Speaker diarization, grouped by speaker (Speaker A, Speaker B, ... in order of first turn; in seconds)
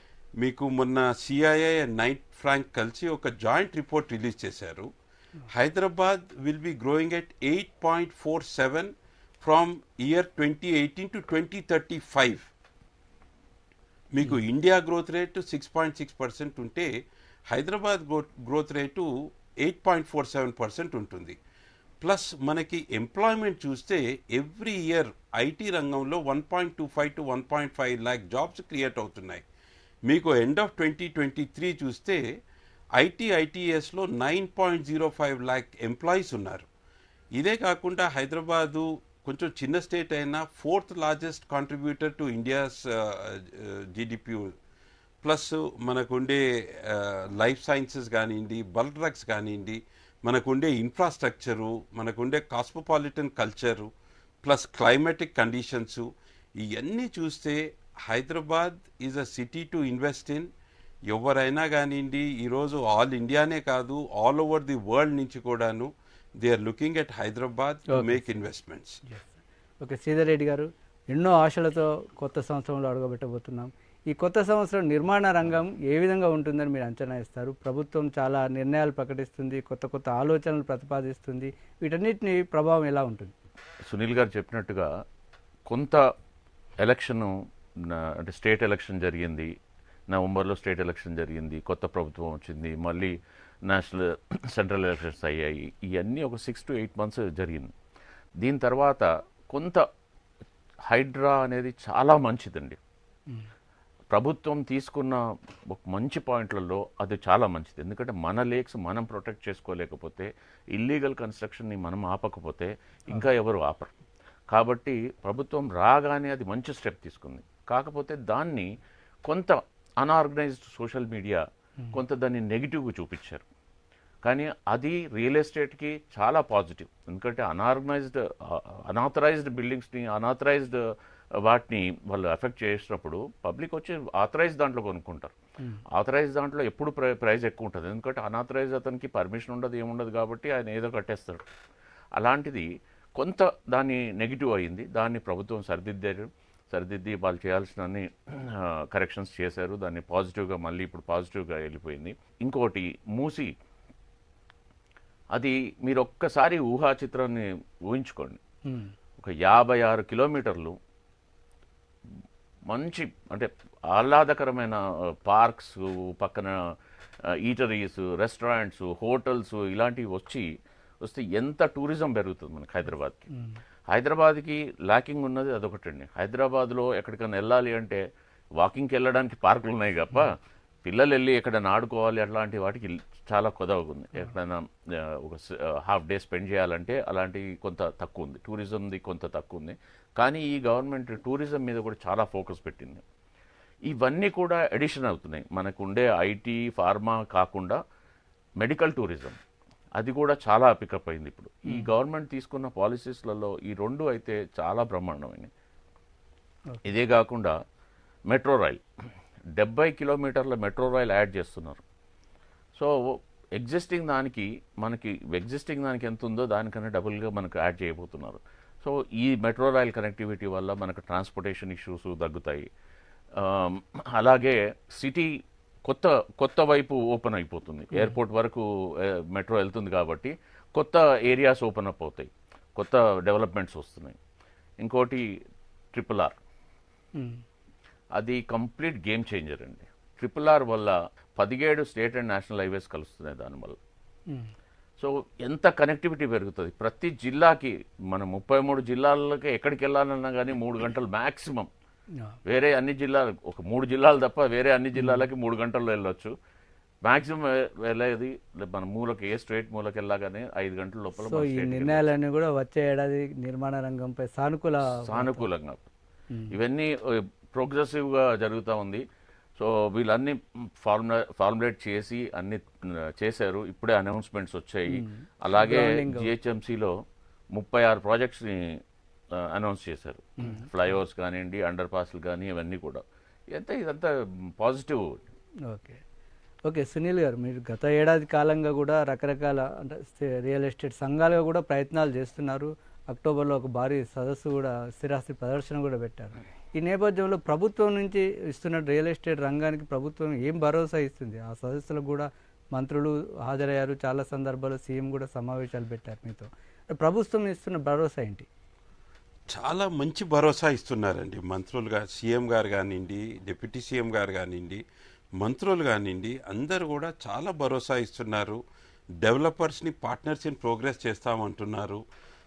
Speaker A: 0.4-4.9, 5.5-12.5, 14.1-16.9, 17.5-19.1, 19.6-21.4, 22.0-29.4, 30.1-32.2, 33.0-36.7, 37.4-44.5, 45.2-53.9, 54.4-56.1, 56.6-60.5, 61.1-69.0, 309.5-314.8, 315.4-318.6, 319.2-322.0
Speaker B: 68.0-68.2, 69.1-83.3, 158.7-158.9, 173.3-173.6, 255.0-255.2, 261.3-265.5, 274.9-276.3, 280.4-280.7, 285.7-286.0, 286.7-308.5
Speaker C: 83.9-84.9, 85.7-86.0, 86.8-89.5, 90.1-93.1, 93.7-97.7, 98.4-99.8, 100.9-102.8, 104.1-113.9, 114.5-118.7, 119.2-123.5, 124.2-135.3, 135.9-141.5, 142.2-153.5, 155.3-158.4, 159.2-160.8, 162.7-166.6, 167.3-170.5, 171.0-173.3, 173.9-178.0, 178.6-193.0, 193.9-197.8, 198.6-199.4, 200.0-205.5, 206.8-207.6, 208.3-208.8, 209.6-211.8, 212.8-222.7, 223.4-225.3, 225.8-234.2, 234.8-235.3, 235.9-236.4, 238.2-243.8, 245.0-251.7, 252.5-256.3, 257.1-262.1, 264.8-265.9, 266.5-269.0, 269.6-277.0, 277.5-278.8, 279.4-285.2